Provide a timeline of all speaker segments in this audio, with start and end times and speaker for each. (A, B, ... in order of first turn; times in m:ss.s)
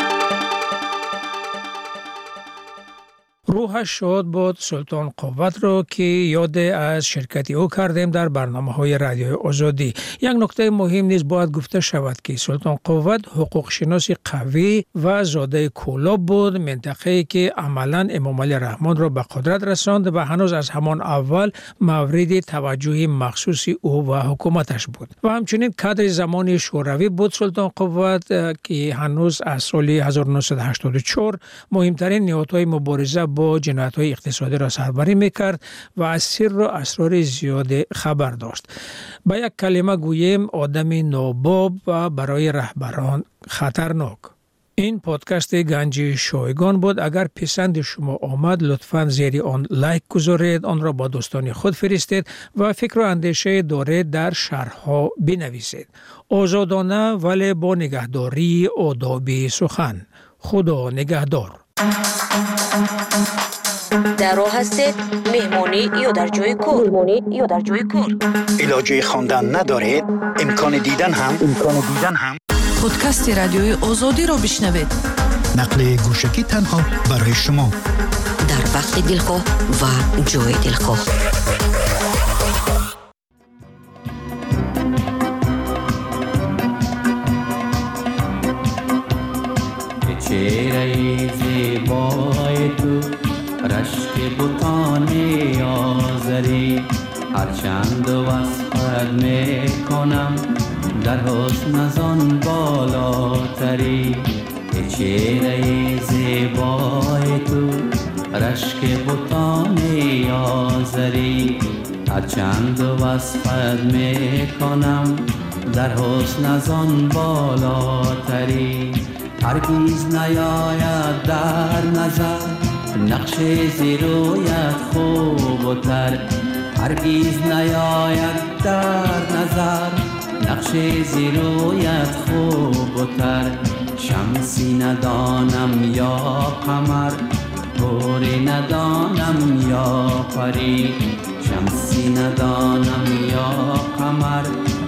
0:03.5-0:38.7 A
0:39.3-1:01.6 A
1:04.2-1:08.2 B
1:08.6-1:12.4 C
1:12.8-1:14.9 D
1:15.6-1:17.7 C
1:18.4-1:21.0 B
1:30.1-1:33.0 E
1:33.6-1:40.4 E
1:41.0-1:47.8 E
1:48.4-1:51.6 E
1:52.1-1:55.2 E
1:55.7-2:06.2 E
2:06.8-2:17.2 E
2:17.8-2:24.5 E